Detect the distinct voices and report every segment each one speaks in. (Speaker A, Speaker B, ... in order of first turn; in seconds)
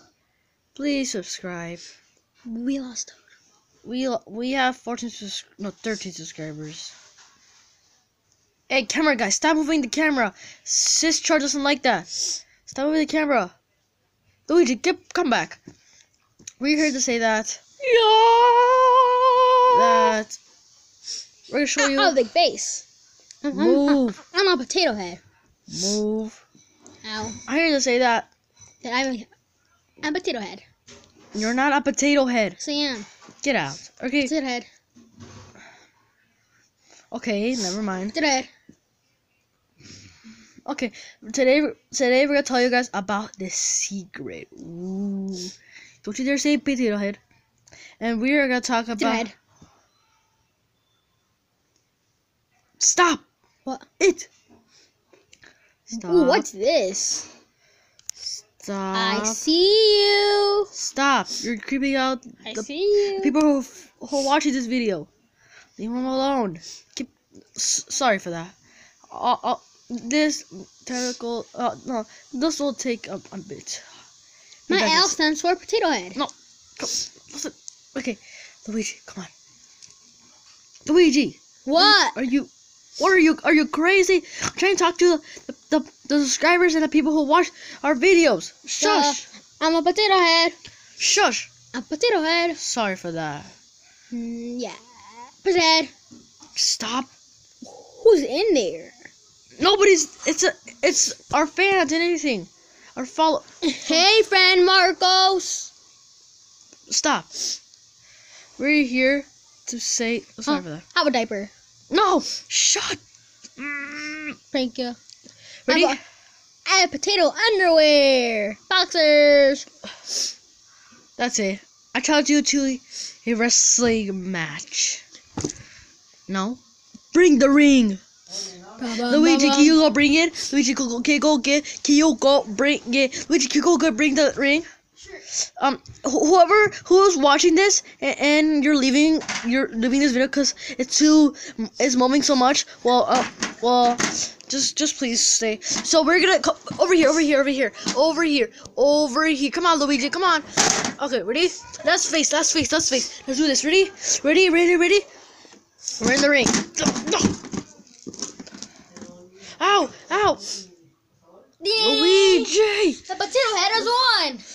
Speaker A: 0.8-1.8, 3.9-7.0, 8.7-13.6, 14.5-15.6, 16.6-17.7, 19.7-20.4, 21.5-22.1, 23.5-24.2, 25.7-26.4, 27.5-28.3, 31.3-32.6, 33.4-34.3, 37.1-38.2, 40.7-47.2, 48.0-49.3, 52.8-53.2, 54.0-54.3, 55.9-56.5, 58.6-59.4, 60.8-65.1, 65.8-68.5, 69.1-73.9, 74.7-75.2, 76.2-79.3, 80.9-89.3, 91.0-91.5, 92.6-93.5, 96.5-97.1, 99.6-104.0, 106.9-107.5, 108.6-110.8, 111.9-113.0, 113.6-114.4, 115.7-116.0, 121.2-125.0, 126.3-126.6, 127.1-128.0, 129.0-134.7, 135.6-155.1, 156.0-157.4, 159.6-160.6, 161.8-163.0
Speaker B: 2.5-3.2, 17.8-20.1, 21.8-22.9, 23.4-25.2, 27.0-27.4, 28.8-29.3, 30.0-30.6, 32.6-33.1, 34.2-34.7, 38.1-38.5, 49.0-49.3, 56.0-57.3, 58.9-60.7, 62.5-63.4, 74.7-76.2, 81.7-82.2, 88.8-90.6, 91.7-92.6, 94.1-95.9, 97.6-99.1, 103.6-105.7, 110.5-111.5, 114.5-115.0, 115.7-116.0, 116.7-119.7, 128.8-129.8, 161.6-162.5, 163.1-164.4